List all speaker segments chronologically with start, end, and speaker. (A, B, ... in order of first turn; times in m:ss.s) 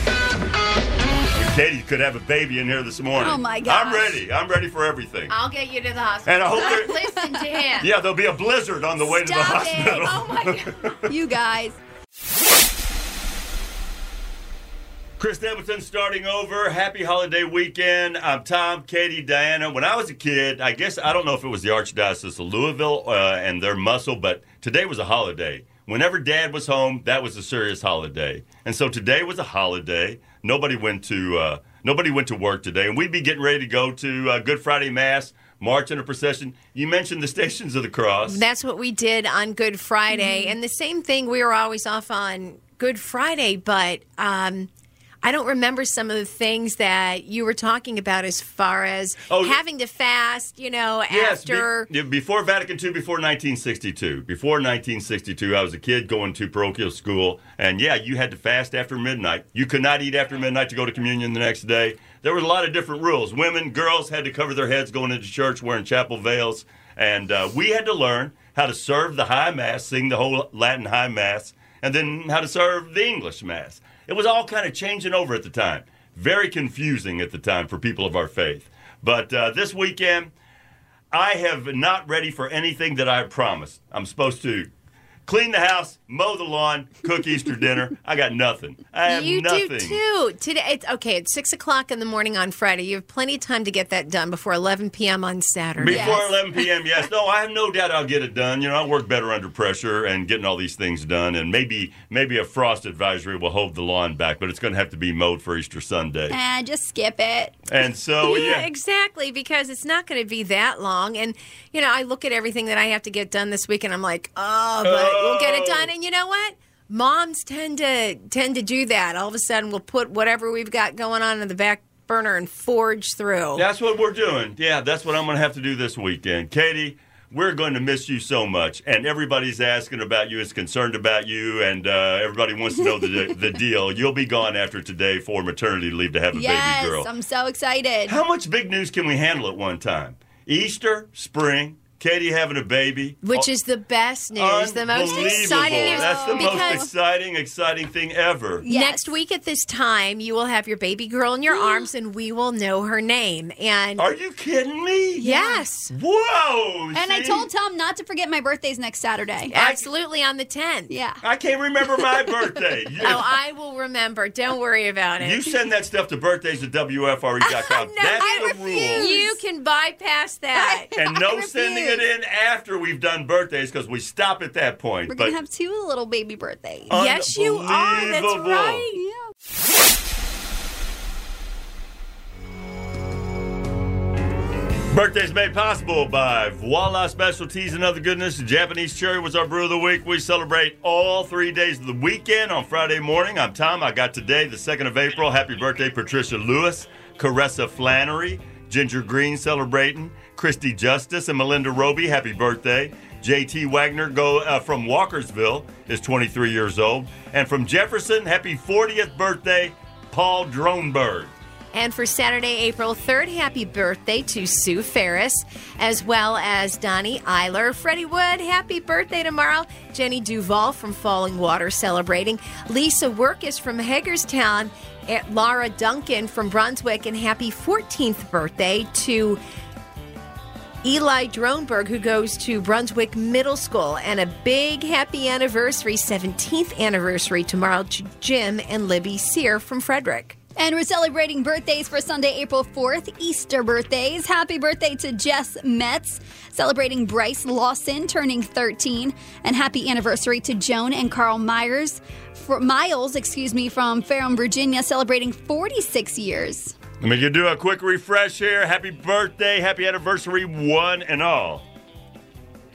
0:01.3-0:05.4 A
0:03.2-0:04.2 B
0:05.3-0:07.9 C
0:06.3-0:07.0 A
0:06.8-0:07.3 B
0:07.8-0:11.1 A
0:09.0-0:10.5 B
0:11.1-0:11.8 B
0:15.2-0:38.4 A
0:38.2-0:44.7 C
0:40.2-0:40.5 B
0:45.2-0:51.9 C
0:49.3-0:49.6 A
0:51.1-1:20.3 A
1:21.1-1:24.7 A
1:25.3-1:30.0 A
1:29.1-1:36.2 C
1:35.8-1:46.4 A
1:35.9-1:36.3 B
1:46.3-1:47.6 B
1:47.7-1:48.7 A
1:48.2-2:03.6 C
1:54.8-1:55.9 A
2:03.6-2:17.1 A
2:12.8-2:13.5 B
2:16.3-2:18.2 B
2:18.1-2:23.5 A
2:23.2-2:26.8 C
2:24.4-2:28.7 A
2:25.1-2:26.9 B
2:28.6-2:29.1 B
2:28.7-2:34.1 C
2:34.0-2:35.2 A
2:35.2-2:35.6 B
2:35.2-2:36.0 C
2:35.9-2:37.5 A
2:36.9-2:39.5 B
2:39.5-2:41.0 C
2:39.6-2:39.9 A
2:40.9-2:41.2 B
2:41.2-2:43.4 A
2:43.0-2:45.5 C
2:45.2-2:49.1 A
2:47.4-2:50.9 C
2:48.2-2:49.3 B
2:50.7-2:52.0 B
2:51.0-2:55.4 A
2:55.1-2:56.9 B
2:56.9-2:58.9 A
2:56.9-2:58.8 C
2:58.8-2:59.3 B
3:04.9-3:31.3 A
3:31.7-3:49.4 C
3:50.8-4:00.4 C
4:00.6-4:16.8 B
4:17.0-4:21.6 A